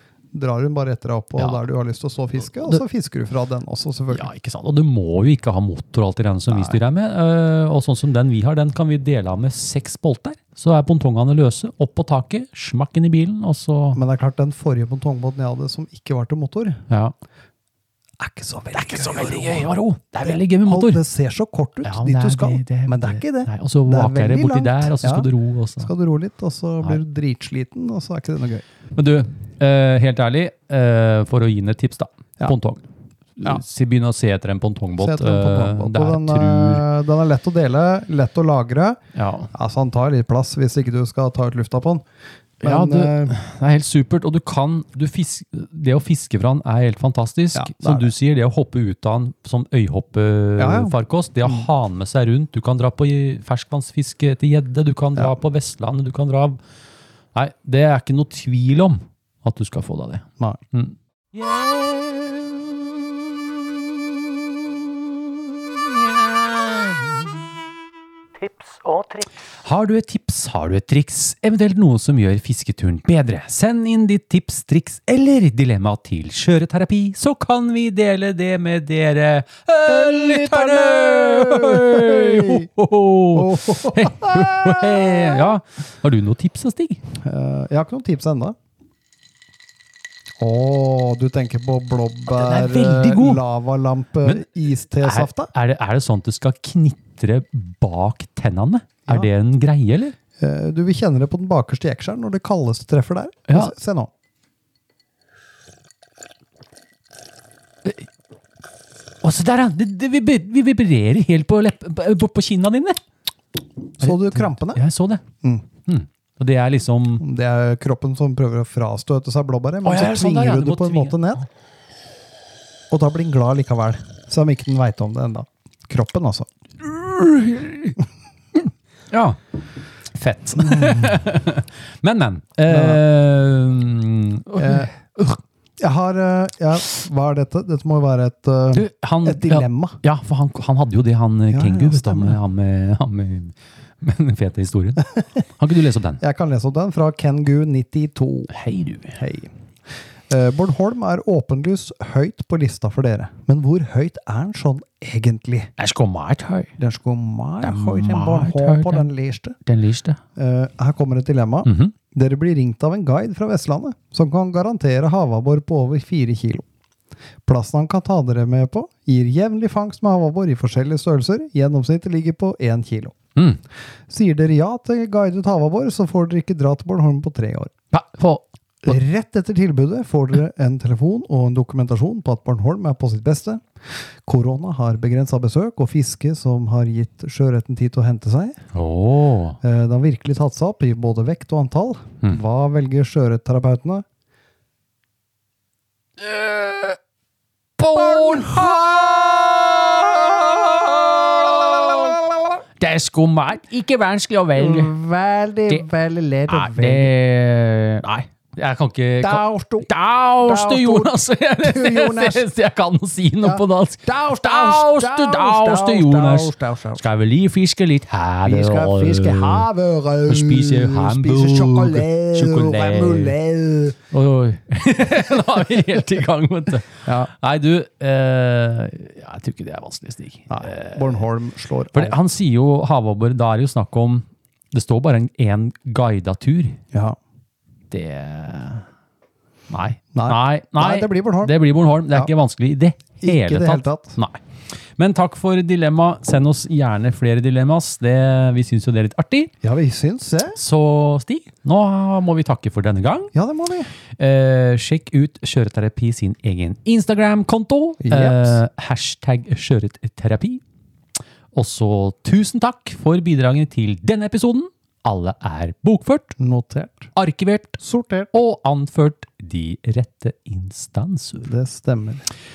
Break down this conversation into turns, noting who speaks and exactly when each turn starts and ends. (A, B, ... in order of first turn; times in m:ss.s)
0:00.3-0:04.3 A
0:01.4-0:01.6 B
0:04.1-0:14.0 B
0:06.5-0:06.8 A
0:13.9-0:16.8 A
0:16.9-0:17.1 B
0:18.2-0:19.7 A
0:18.7-0:21.0 B
0:20.2-0:28.6 A
0:21.8-0:25.9 B
0:28.9-0:32.8 B
0:33.4-0:36.8 B
0:35.0-0:39.0 A
0:39.1-0:39.5 B
0:39.5-0:42.0 A
0:42.6-0:43.4 A
0:42.6-0:56.6 B
0:47.5-0:48.1 A
0:50.6-0:51.7 A
0:57.3-1:02.7 B
1:05.8-1:07.2 B
1:08.4-1:27.0 B
1:19.9-1:22.7 A
1:23.3-1:25.5 A
1:27.2-1:28.6 A
1:30.4-1:35.5 A
1:32.3-1:33.4 B
1:34.2-1:40.2 B
1:40.4-1:44.1 A
1:43.5-1:43.7 B
1:49.2-1:53.0 B
1:54.0-1:54.8 A
1:54.0-1:55.2 B
1:55.8-1:57.2 B
1:57.2-2:01.4 A
1:59.8-2:01.4 B
2:02.9-2:06.5 A
2:06.8-2:08.0 B
2:09.1-2:09.4 B
2:10.1-2:15.4 B
2:10.6-2:11.1 A
2:12.7-2:13.0 A
2:14.6-2:14.9 A
2:15.8-2:20.0 A
2:18.7-2:26.2 B
2:21.5-2:22.4 A
2:26.2-2:28.5 A
2:28.5-2:29.2 B
2:29.1-2:29.5 A
2:30.3-2:35.7 A
2:35.8-2:36.7 B
2:36.8-2:39.6 A
2:37.6-2:39.1 B
2:39.6-2:40.2 B
2:40.4-2:46.6 A
2:41.6-2:41.9 B
2:47.4-2:53.2 A
2:54.1-2:57.7 A
2:57.9-2:59.0 B
2:58.8-3:08.6 A
3:08.7-3:09.6 B
3:09.6-3:14.0 A
3:16.2-3:17.0 B
3:17.8-3:22.2 B
3:17.9-3:18.7 A
3:22.0-3:22.5 A
3:22.8-3:24.9 B
3:24.6-3:27.1 A
3:26.5-3:39.7 B
3:29.2-3:29.9 A
3:30.4-3:32.4 A
3:33.4-3:37.0 A
3:38.4-3:44.0 A
3:40.2-3:43.4 B
3:44.1-3:51.2 B
3:50.5-3:52.2 A
3:51.9-3:56.8 B
3:56.9-3:57.2 A
3:57.9-3:58.9 B
3:59.7-4:04.4 B
4:00.1-4:01.5 A
4:03.2-4:04.2 A
4:05.0-4:09.5 B
4:09.6-4:10.6 A
4:10.5-4:13.3 B
4:13.3-4:13.9 A
4:14.2-4:20.6 B
4:18.0-4:18.6 A
4:21.5-4:26.4 B
4:26.4-4:27.1 A
4:27.2-4:27.8 B
4:27.8-4:28.3 A
4:28.3-4:31.5 B
4:31.4-4:32.2 A